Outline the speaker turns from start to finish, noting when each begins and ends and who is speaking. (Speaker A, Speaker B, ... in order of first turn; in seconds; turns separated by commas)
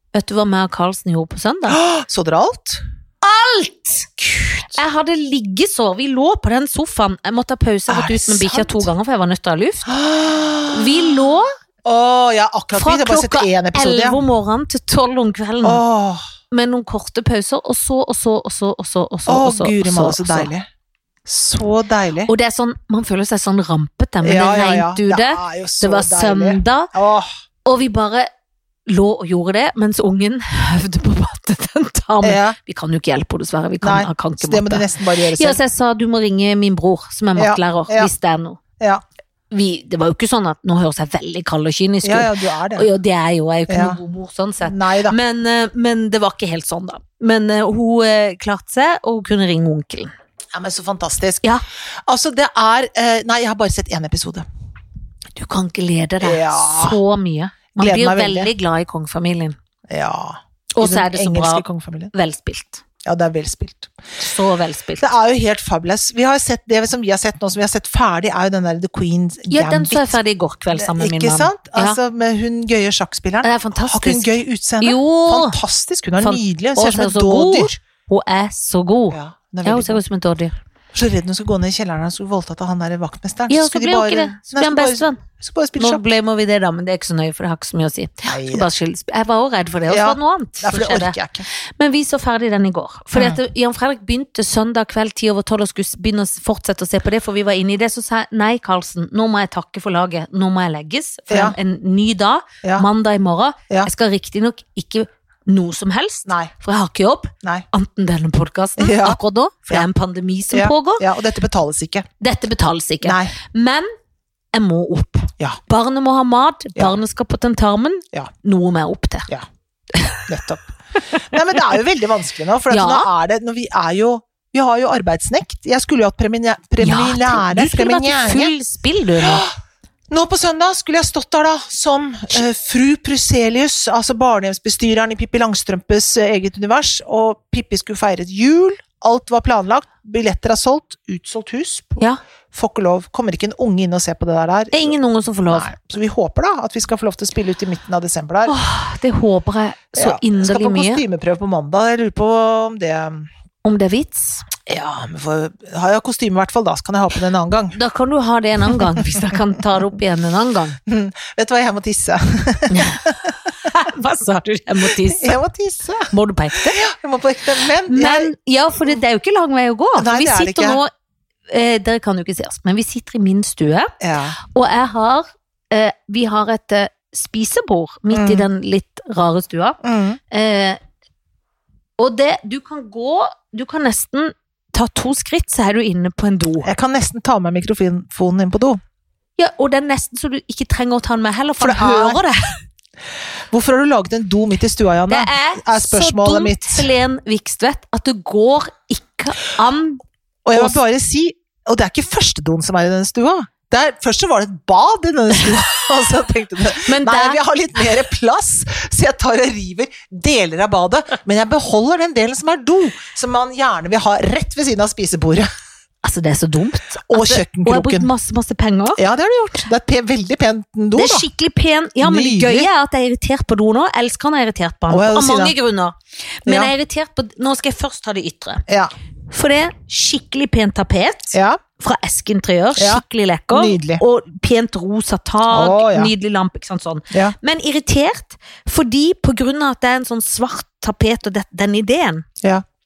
Speaker A: 0.1-1.8, Speaker B: 1.7-2.8, Speaker A: 3.2-4.1, Speaker B: 4.2-4.8, Speaker A: 4.7-9.9, Speaker B: 7.9-8.9, Speaker B: 9.8-11.2, Speaker A: 10.7-11.5, Speaker B: 11.8-14.2, Speaker A: 12.7-15.8, Speaker B: 15.6-16.2, Speaker A: 16.5-20.5, Speaker B: 19.3-20.7, Speaker B: 21.2-22.3, Speaker A: 22.3-26.9, Speaker B: 24.2-27.3, Speaker A: 27.6-28.3, Speaker A: 28.9-38.6, Speaker B: 32.2-32.6, Speaker B: 33.8-35.6, Speaker B: 37.4-38.1, Speaker A: 39.5-50.1, Speaker B: 42.0-42.9, Speaker B: 43.7-44.0, Speaker B: 44.6-45.2, Speaker B: 50.5-51.5, Speaker B: 52.1-54.5, Speaker A: 55.4-59.6, Speaker B: 56.2-57.0, Speaker B: 57.8-58.5, Speaker B: 59.9-62.1, Speaker A: 60.7-62.8, Speaker B: 63.0-63.9, Speaker A: 64.2-65.0, Speaker B: 65.0-70.2, Speaker A: 69.5-72.0, Speaker B: 70.7-77.8, Speaker A: 73.4-75.6, Speaker A: 76.2-80.5, Speaker B: 79.1-80.0, Speaker B: 80.9-86.0, Speaker A: 83.5-85.2, Speaker A: 85.8-111.0, Speaker B: 88.2-88.7, Speaker B: 89.9-91.5, Speaker B: 93.1-93.4, Speaker B: 101.3-101.5, Speaker B: 106.2-106.5, Speaker B: 108.8-109.2, Speaker B: 110.5-112.1, Speaker A: 112.2-113.9, Speaker B: 113.0-113.3, Speaker A: 114.5-119.3, Speaker A: 119.9-120.2, Speaker B: 120.3-128.5, Speaker A: 121.1-121.6, Speaker A: 122.7-123.1, Speaker A: 126.8-129.4, Speaker B: 129.2-129.5, Speaker B: 130.1-145.0, Speaker A: 144.7-145.7, Speaker B: 145.5-148.5, Speaker A: 148.4-151.0, Speaker B: 149.9-153.3, Speaker A: 153.6-154.5, Speaker B: 154.7-157.8, Speaker A: 157.7-160.8, Speaker B: 158.7-159.2, Speaker B: 160.9-163.3, Speaker A: 162.7-165.3, Speaker B: 164.9-166.1, Speaker A: 166.1-166.8, Speaker B: 166.7-168.3, Speaker A: 167.9-170.9, Speaker B: 170.0-170.8, Speaker A: 171.5-180.8, Speaker B: 174.0-174.4, Speaker B: 178.1-178.5, Speaker B: 179.8-180.2, Speaker A: 182.0-186.7, Speaker B: 186.6-188.8, Speaker A: 189.4-192.6, Speaker B: 191.6-192.2, Speaker B: 193.5-196.9, Speaker A: 195.1-200.0, Speaker B: 200.4-215.5, Speaker A: 200.5-200.8, Speaker A: 205.4-205.9, Speaker A: 206.8-207.4, Speaker A: 216.0-219.0, Speaker B: 217.1-218.1, Speaker B: 219.0-221.3, Speaker A: 220.9-228.6, Speaker B: 222.0-222.7, Speaker B: 224.9-225.6, Speaker B: 226.4-226.7, Speaker A: 229.3-242.2, Speaker B: 231.3-231.6, Speaker B: 232.8-234.0, Speaker B: 235.5-236.1